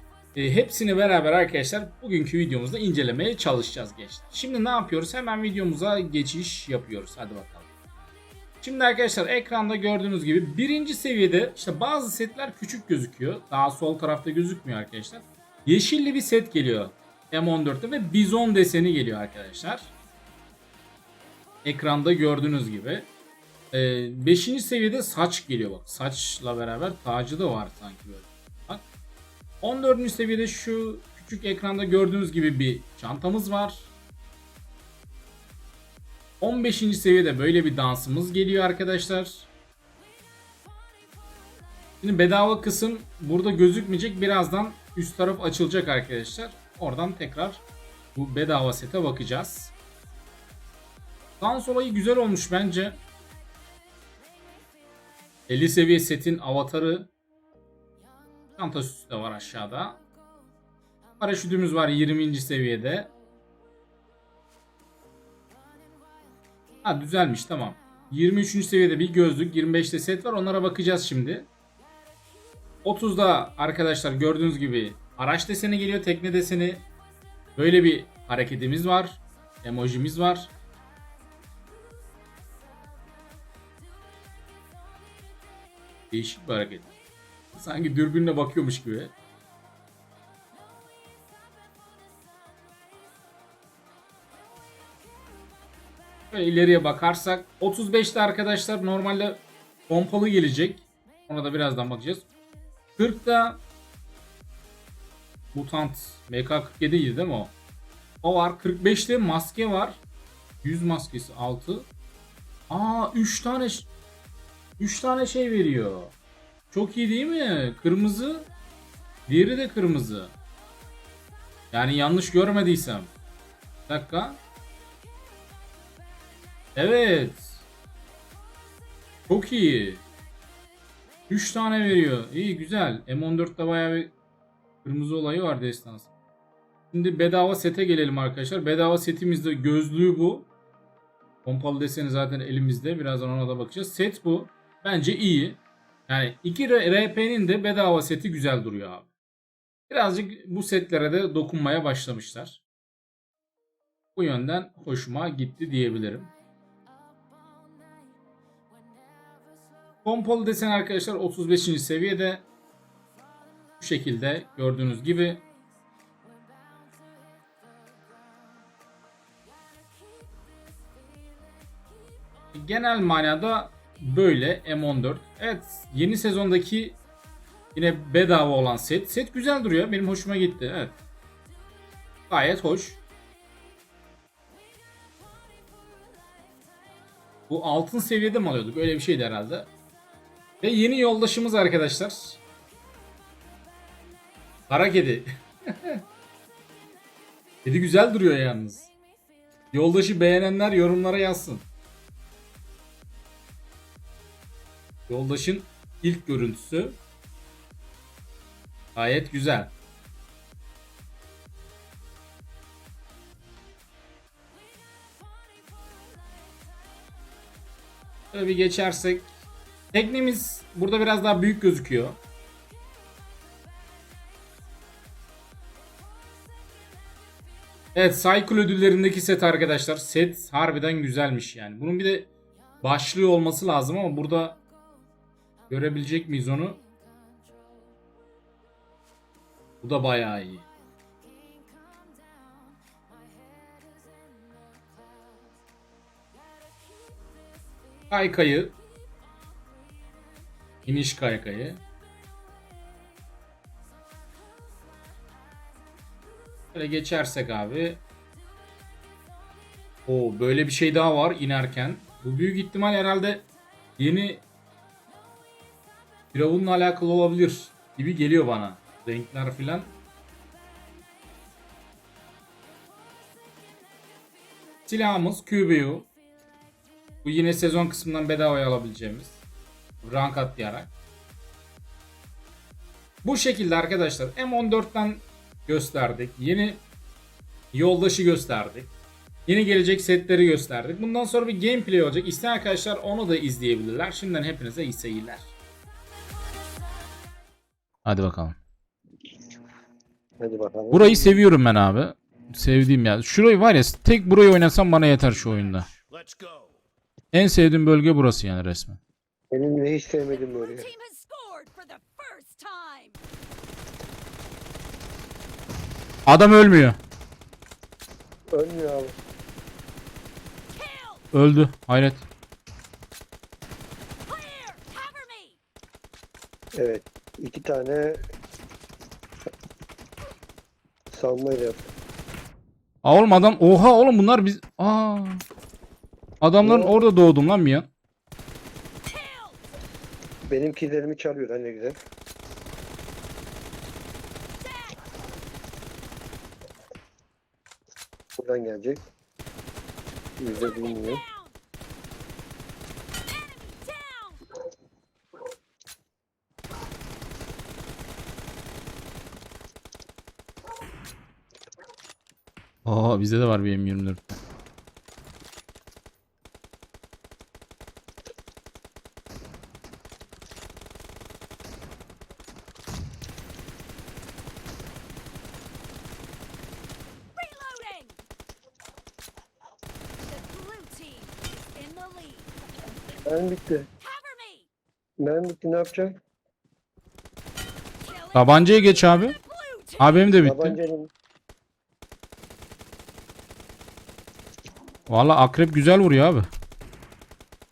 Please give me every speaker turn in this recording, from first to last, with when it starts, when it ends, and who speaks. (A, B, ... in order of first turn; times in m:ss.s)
0:00.3-0:07.7 A
0:08.6-0:19.9 A
0:21.6-0:23.1 A
0:23.7-0:28.8 A
0:29.6-0:33.9 A
0:36.4-0:39.5 A
0:42.0-0:47.6 A
0:48.1-0:49.7 A
0:51.4-0:53.0 A
0:55.5-0:57.1 A
0:58.6-1:00.0 A
1:01.2-1:03.1 A
1:06.8-1:11.5 A
1:12.8-1:16.8 A
1:17.6-1:20.5 A
1:26.1-1:26.9 A
1:27.5-1:29.1 A
1:36.3-1:42.3 A
1:43.0-1:43.6 A
1:45.5-1:47.5 A
1:48.2-1:50.0 A
1:50.6-1:51.9 A
1:52.7-1:53.9 A
1:54.8-1:56.1 A
1:56.7-1:58.5 A
1:59.3-2:00.3 A
2:01.7-2:03.1 A
2:03.9-2:04.4 A
2:06.7-2:07.6 A
2:09.3-2:10.0 A
2:11.3-2:14.1 A
2:14.8-2:16.1 A
2:16.9-2:20.5 A
2:21.4-2:29.1 A
2:29.9-2:32.6 A
2:34.1-2:36.3 A
2:40.0-2:42.4 A
2:43.8-2:45.4 A
2:52.5-2:57.0 A
2:57.7-3:01.0 A
3:02.3-3:03.0 A
3:07.5-3:09.7 A
3:10.6-3:12.4 A
3:14.7-3:16.0 A
3:17.6-3:18.9 A
3:19.7-3:21.6 A
3:25.1-3:27.0 A
3:28.9-3:29.7 A
3:38.3-3:39.3 A
3:39.9-3:42.2 A
3:47.9-3:52.3 A
3:52.8-3:54.6 A
3:55.7-3:56.8 A
3:59.8-4:00.6 A
4:08.1-4:08.8 A
4:10.8-4:11.8 A
4:16.7-4:18.0 A
4:20.1-4:23.5 A
4:24.0-4:24.4 A
4:26.3-4:29.9 A
4:34.8-4:36.1 A
4:37.2-4:39.4 A
4:40.0-4:40.9 A
4:43.2-4:46.8 A
4:47.7-4:48.9 A
4:49.5-4:55.5 A
4:58.0-4:58.6 A
5:00.4-5:01.4 B
5:00.9-5:05.9 A
5:07.3-5:09.0 A
5:09.5-5:10.9 B
5:10.3-5:13.2 C
5:16.2-5:17.0 A
5:18.5-5:19.1 B
5:20.7-5:21.2 C
5:21.3-5:22.2 A
5:24.3-5:25.6 C
5:26.8-5:28.2 B
5:31.1-5:31.8 B
5:33.0-5:35.4 A
5:36.4-5:37.9 A
5:36.6-5:37.0 B
5:39.1-5:39.6 C
5:40.5-5:42.0 B
5:44.6-5:45.0 C
5:48.4-5:49.0 B
5:50.4-5:51.2 B
5:50.6-5:51.5 C
5:53.3-5:54.4 C
6:02.8-6:04.4 A
6:17.4-6:18.2 C
6:20.3-6:22.5 C
6:23.2-6:23.9 B
6:24.0-6:24.7 C
6:25.2-6:26.2 B
6:28.0-6:30.3 C
6:28.3-6:29.4 A
6:30.0-6:30.8 A
6:30.4-6:31.1 B
6:35.1-6:36.5 A